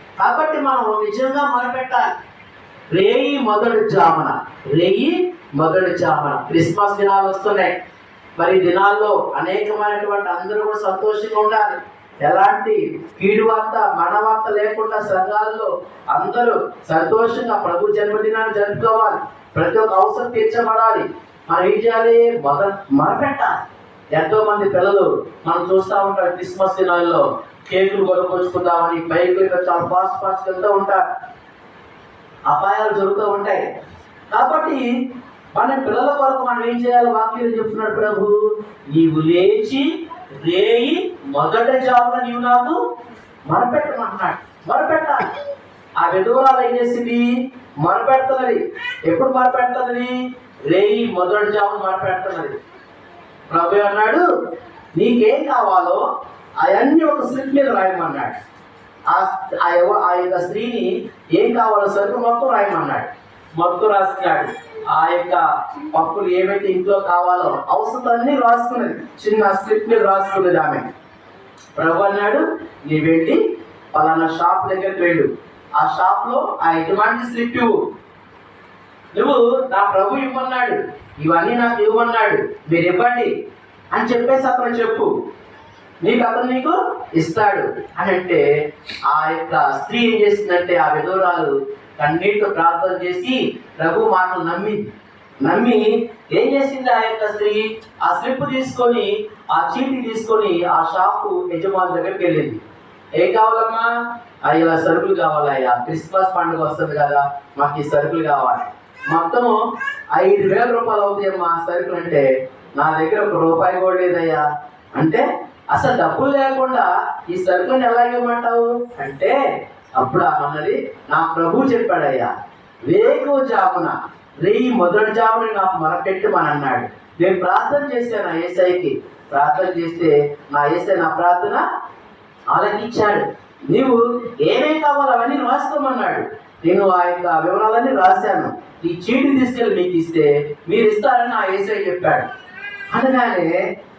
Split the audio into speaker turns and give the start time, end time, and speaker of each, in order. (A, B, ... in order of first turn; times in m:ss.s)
0:00.2-0:02.0 A
0:02.9-0:07.8 A
0:08.4-0:31.0 A
0:32.5-0:33.6 A
0:34.3-0:34.9 A
0:35.5-0:42.8 A
0:43.5-0:45.3 A
0:46.0-0:50.2 A
0:50.7-0:52.6 A
0:53.5-0:54.2 A
0:55.0-0:56.0 A
0:56.6-0:58.3 A
0:59.1-1:10.9 A
1:11.7-1:13.4 A
1:13.9-1:17.8 A
1:19.1-1:23.3 A
1:23.9-1:25.1 A
1:26.0-1:28.4 A
1:29.0-1:34.9 A
1:35.4-1:42.6 A
1:43.2-1:43.9 A
1:44.4-1:49.6 A
1:50.1-1:59.4 A
2:00.0-2:02.3 A
2:02.8-2:11.6 A
2:12.5-2:22.3 A
2:22.9-2:23.5 A